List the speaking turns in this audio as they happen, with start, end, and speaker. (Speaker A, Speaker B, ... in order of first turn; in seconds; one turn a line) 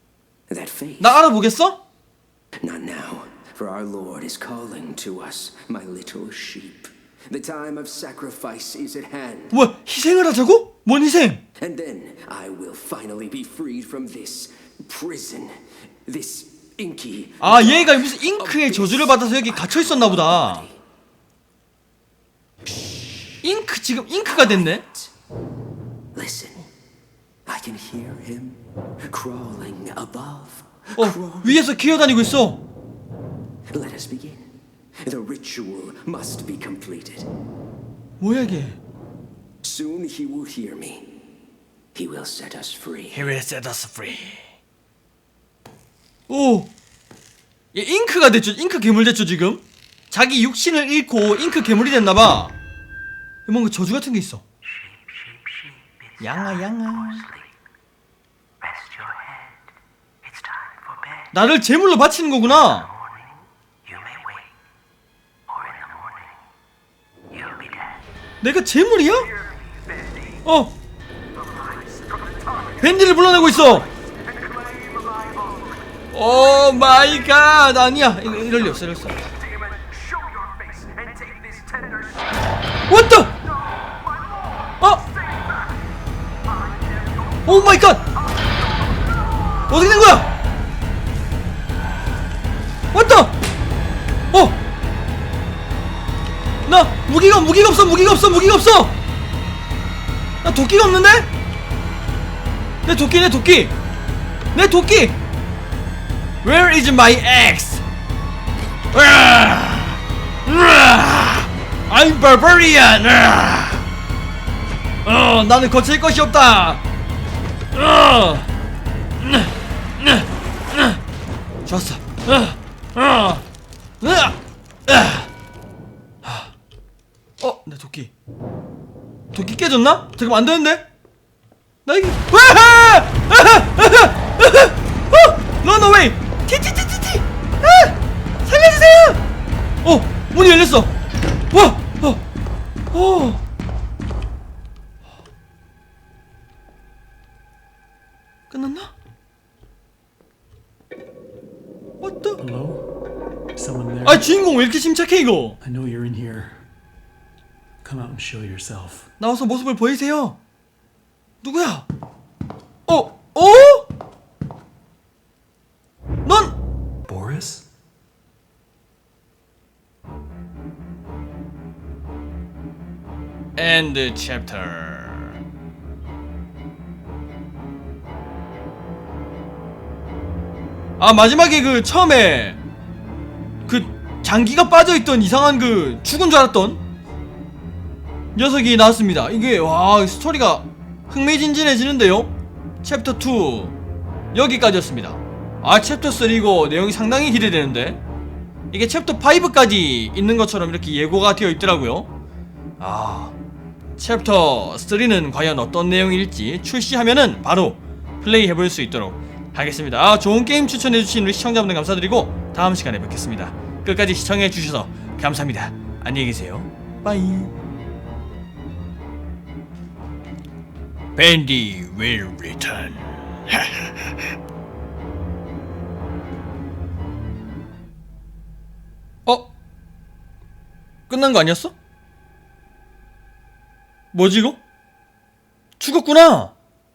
Speaker A: 0.5-1.2
Speaker B: 1.0-1.8
Speaker A: 2.6-9.6
Speaker B: 9.5-11.4
Speaker A: 11.6-20.8
Speaker B: 17.4-20.7
Speaker A: 22.7-23.2
Speaker B: 23.4-24.8
Speaker A: 24.3-25.1
Speaker A: 26.1-26.7
Speaker A: 27.5-31.6
Speaker B: 31.0-32.6
Speaker A: 33.7-34.5
Speaker A: 35.0-37.3
Speaker B: 38.2-38.8
Speaker A: 39.6-41.2
Speaker A: 42.0-43.3
Speaker B: 43.1-44.5
Speaker B: 46.3-46.7
Speaker B: 47.7-52.5
Speaker B: 53.5-54.4
Speaker A: 54.6-57.5
Speaker B: 56.2-57.2
Speaker A: 58.6-59.7
Speaker A: 60.2-61.3
Speaker B: 61.3-62.9
Speaker A: 62.6-64.5
Speaker A: 65.5-66.3
Speaker A: 67.3-68.0
Speaker B: 68.4-69.3
Speaker A: 69.3-70.4
Speaker B: 70.5-70.8
Speaker A: 71.4-72.8
Speaker B: 72.8-73.9
Speaker A: 74.2-75.8
Speaker B: 76.1-79.2
Speaker A: 79.4-82.3
Speaker B: 82.9-83.3
Speaker A: 84.1-84.7
Speaker A: 85.3-85.6
Speaker A: 86.5-87.4
Speaker B: 87.5-88.0
Speaker B: 89.7-90.3
Speaker B: 92.9-93.3
Speaker B: 94.3-94.6
Speaker B: 96.7-99.0
Speaker B: 100.4-101.3
Speaker B: 102.8-103.7
Speaker B: 104.5-105.2
Speaker B: 106.4-107.8
Speaker B: 108.9-113.9
Speaker B: 115.0-116.8
Speaker B: 117.7-118.5
Speaker B: 119.2-121.0
Speaker B: 121.7-123.5
Speaker B: 124.0-125.3
Speaker B: 126.2-126.5
Speaker B: 127.4-128.1
Speaker B: 129.3-130.8
Speaker B: 131.9-139.2
Speaker B: 139.8-140.9
Speaker B: 141.5-142.2
Speaker B: 142.9-143.4
Speaker B: 148.5-148.9
Speaker B: 152.0-152.4
Speaker C: 152.4-152.9
Speaker C: 153.6-154.3
Speaker B: 154.0-155.6
Speaker C: 155.6-156.7
Speaker C: 157.8-159.1
Speaker B: 159.2-160.4
Speaker B: 161.4-161.9
Speaker B: 162.9-163.9
Speaker B: 166.2-166.6
Speaker C: 167.1-167.7
Speaker B: 173.6-175.4
Speaker B: 181.0-182.6
Speaker B: 183.7-186.8
Speaker B: 188.3-192.3
Speaker B: 192.8-193.8
Speaker B: 194.3-198.0
Speaker B: 198.7-202.1
Speaker B: 202.8-203.3
Speaker B: 204.0-217.5
Speaker B: 221.2-224.2
Speaker B: 229.3-229.5
Speaker B: 231.1-231.7
Speaker B: 234.1-234.6
Speaker B: 235.8-236.5